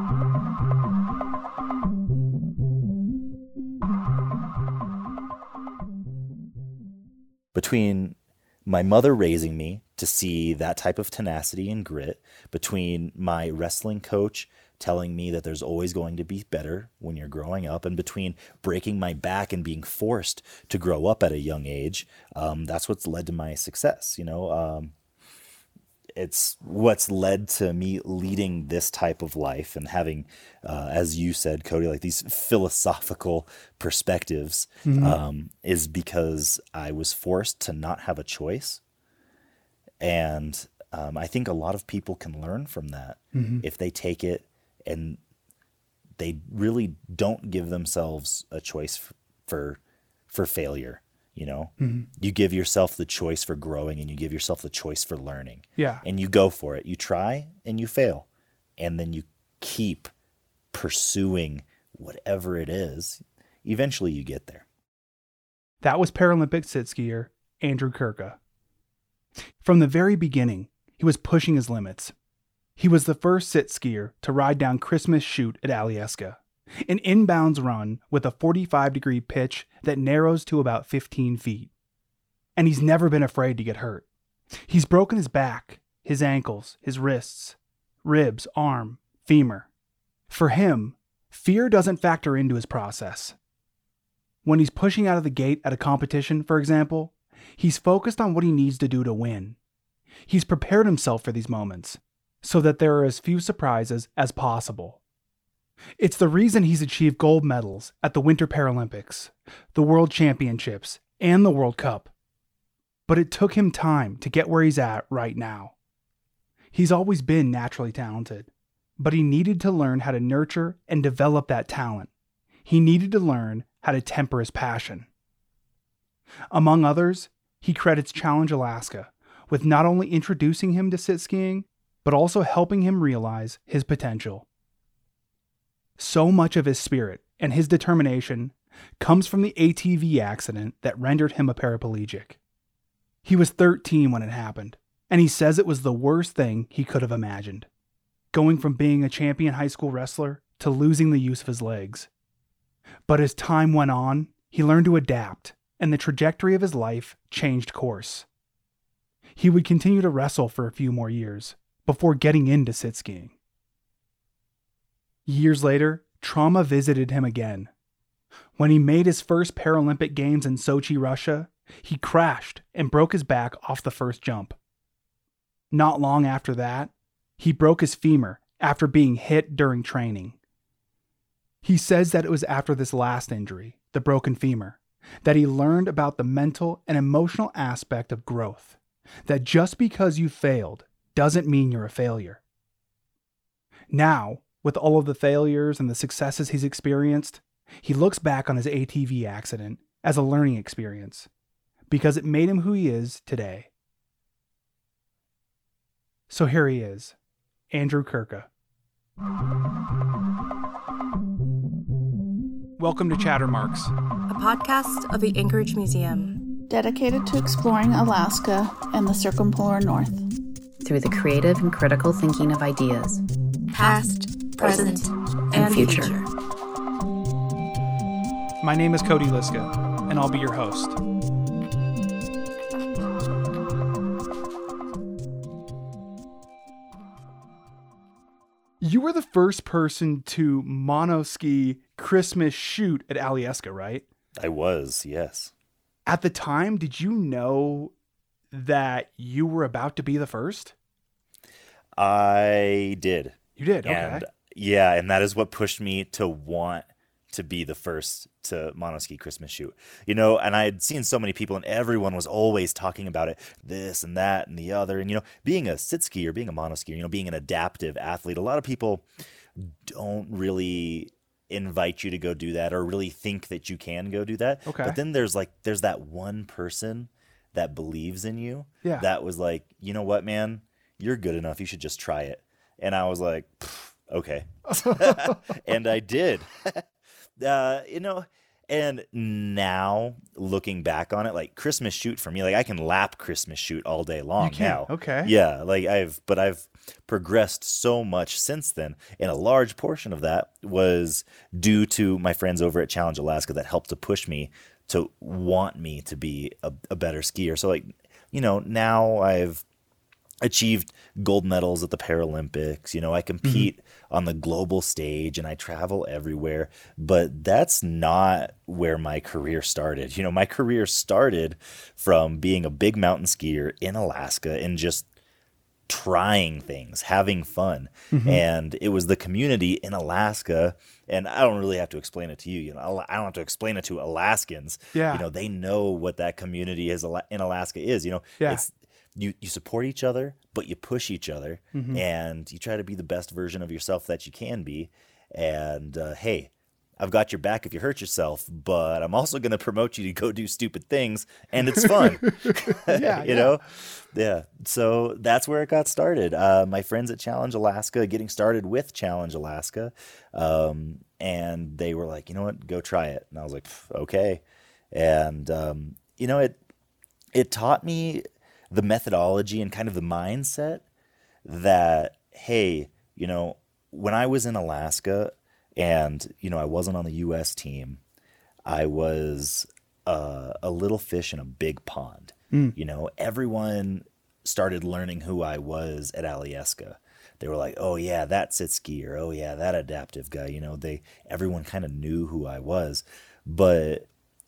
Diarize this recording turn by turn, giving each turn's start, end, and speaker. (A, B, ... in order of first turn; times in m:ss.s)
0:07.5-0:24.9 A
0:26.2-0:38.8 A
0:34.8-0:35.2 B
0:40.0-0:45.2 A
0:43.3-0:43.6 B
0:46.2-0:49.8 A
0:50.3-0:58.3 A
0:51.8-0:52.1 B
0:55.8-0:56.0 B
0:58.8-1:00.1 A
1:00.7-1:04.6 A
1:05.8-1:08.4 B
1:09.6-1:12.1 B
1:12.8-1:21.7 B
1:22.6-1:24.1 B
1:24.7-1:29.7 B
1:30.3-1:33.4 B
1:34.4-1:39.6 B
1:40.3-1:45.0 B
1:46.0-1:52.1 B
1:53.1-1:55.7 B
1:56.7-2:02.1 B
2:02.6-2:05.1 B
2:06.5-2:14.5 B
2:16.0-2:22.4 B
2:23.2-2:27.7 B
2:28.3-2:32.1 B
2:33.1-2:38.3 B
2:39.4-2:43.4 B
2:45.2-2:47.7 B
2:48.6-2:54.6 B
2:55.7-3:00.4 B
3:01.6-3:12.4 B
3:13.9-3:21.3 B
3:21.9-3:23.7 B
3:26.3-3:27.2 B
3:27.7-3:28.5 B
3:32.8-3:33.9 B
3:34.3-3:36.4 C
3:36.7-3:40.2 D
3:40.8-3:43.2 E
3:43.7-3:46.3 C
3:44.6-3:46.2 E
3:48.6-3:51.0 B
3:58.8-4:04.1 B
4:04.4-4:05.5 A
4:06.1-4:07.9 B
4:08.5-4:10.7 B
4:12.0-4:29.0 A
4:13.6-4:14.2 B
4:29.6-4:46.9 A
4:34.7-4:35.0 B
4:44.9-4:45.3 B
4:47.4-5:09.6 A
4:54.4-4:55.3 B
5:10.4-5:25.0 A
5:25.9-6:06.6 A
5:28.1-5:28.4 B
5:34.9-5:35.2 B
5:41.7-5:42.0 B
5:51.8-5:53.6 B
6:07.3-6:10.8 A
6:11.4-6:18.0 A
6:18.6-6:34.1 A